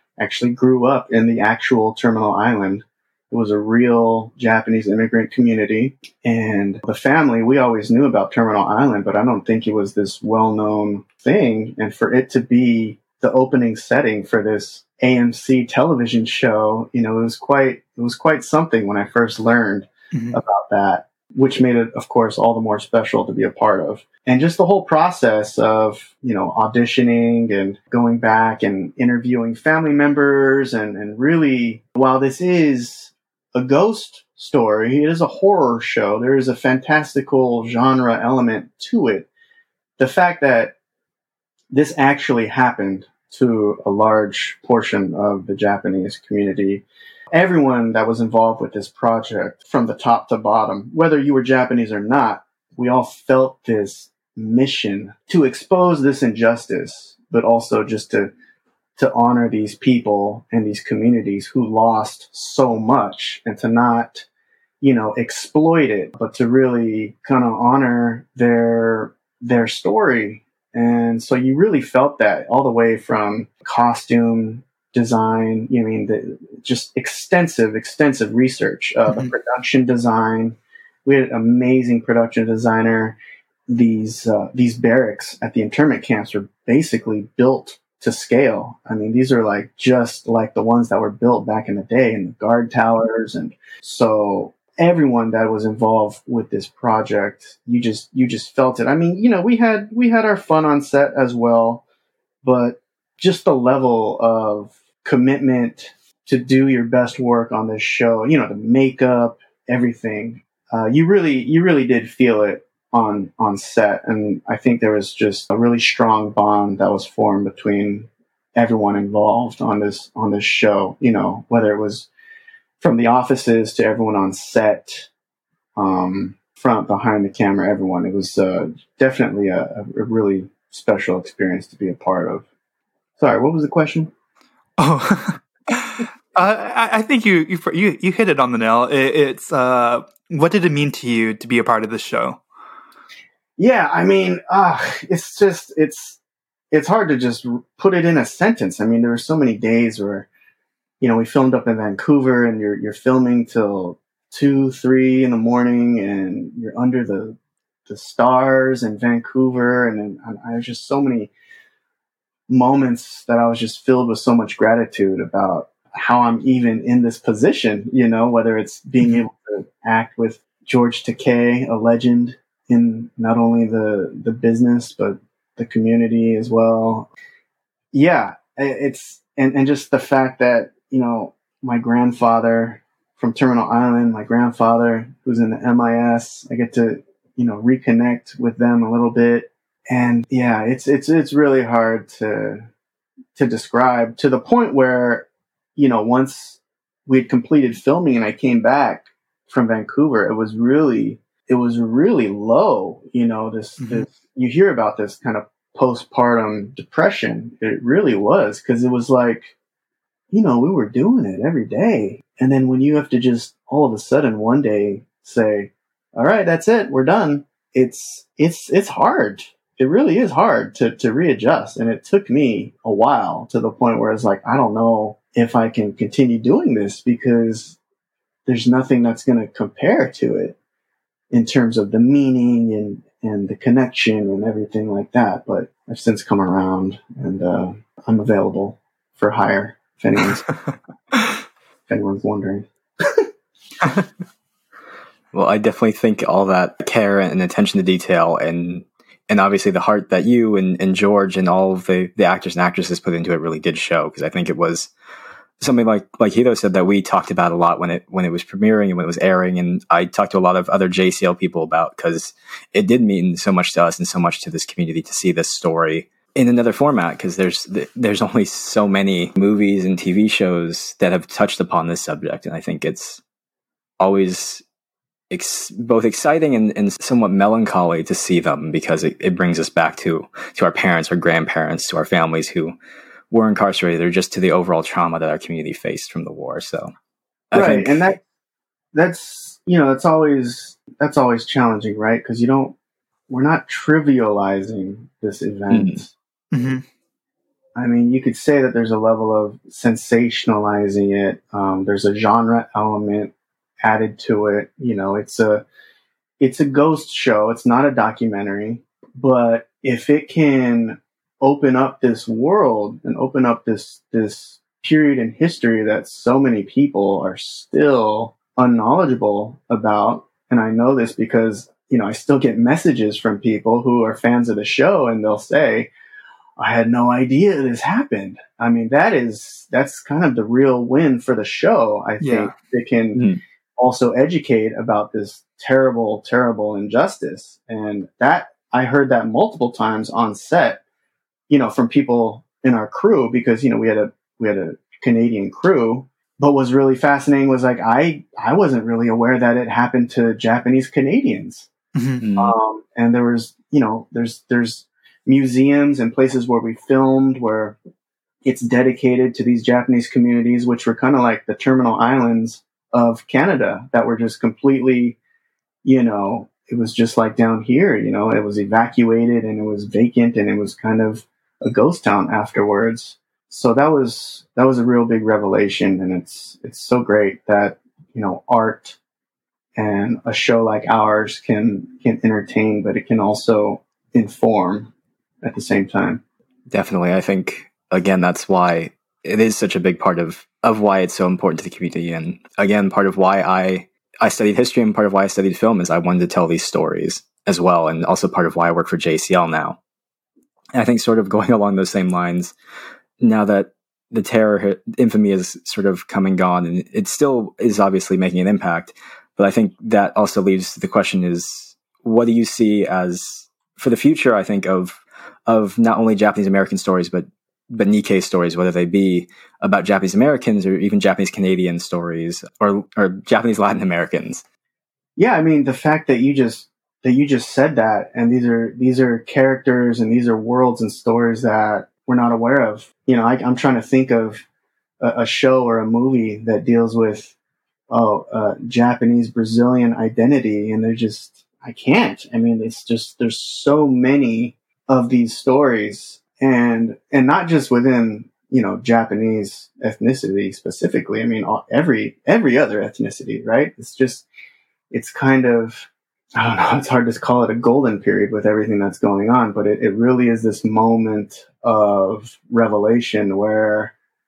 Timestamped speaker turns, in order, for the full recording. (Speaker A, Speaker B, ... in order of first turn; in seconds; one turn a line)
Speaker A: 0.2-39.3
Speaker B: 20.1-20.4
Speaker A: 40.0-40.8
Speaker A: 41.7-58.3
Speaker A: 59.0-64.3
Speaker A: 64.8-83.2
Speaker A: 83.7-101.8
Speaker A: 102.4-122.1
Speaker A: 122.8-125.1
Speaker A: 125.8-132.5
Speaker A: 133.2-134.1
Speaker B: 134.8-142.4
Speaker A: 143.6-146.2
Speaker A: 146.7-150.3
Speaker A: 151.0-161.3
Speaker A: 162.5-177.1
Speaker A: 177.9-192.7
Speaker A: 193.4-209.5
Speaker B: 203.8-204.1
Speaker A: 210.3-227.8
Speaker A: 228.5-230.6
Speaker A: 231.3-240.4
Speaker A: 241.9-243.3
Speaker C: 245.3-254.9
Speaker C: 255.6-273.2
Speaker C: 274.0-274.6
Speaker C: 275.3-282.8
Speaker C: 283.3-286.9
Speaker C: 287.5-288.1
Speaker A: 287.5-288.2
Speaker A: 288.9-292.8
Speaker A: 293.3-296.1
Speaker C: 295.7-296.0
Speaker B: 296.5-296.8
Speaker A: 297.8-305.6
Speaker A: 306.4-325.9
Speaker A: 326.6-340.8
Speaker B: 332.2-332.5
Speaker C: 333.1-333.4
Speaker A: 341.5-351.7
Speaker B: 351.9-352.2
Speaker C: 352.2-352.6
Speaker A: 352.4-357.8
Speaker A: 358.4-365.2
Speaker A: 365.8-379.0
Speaker A: 379.8-386.2
Speaker C: 386.7-399.8
Speaker C: 400.7-402.5
Speaker C: 403.2-424.4
Speaker A: 425.2-434.4
Speaker A: 435.0-437.4
Speaker A: 437.9-454.3
Speaker A: 454.9-463.9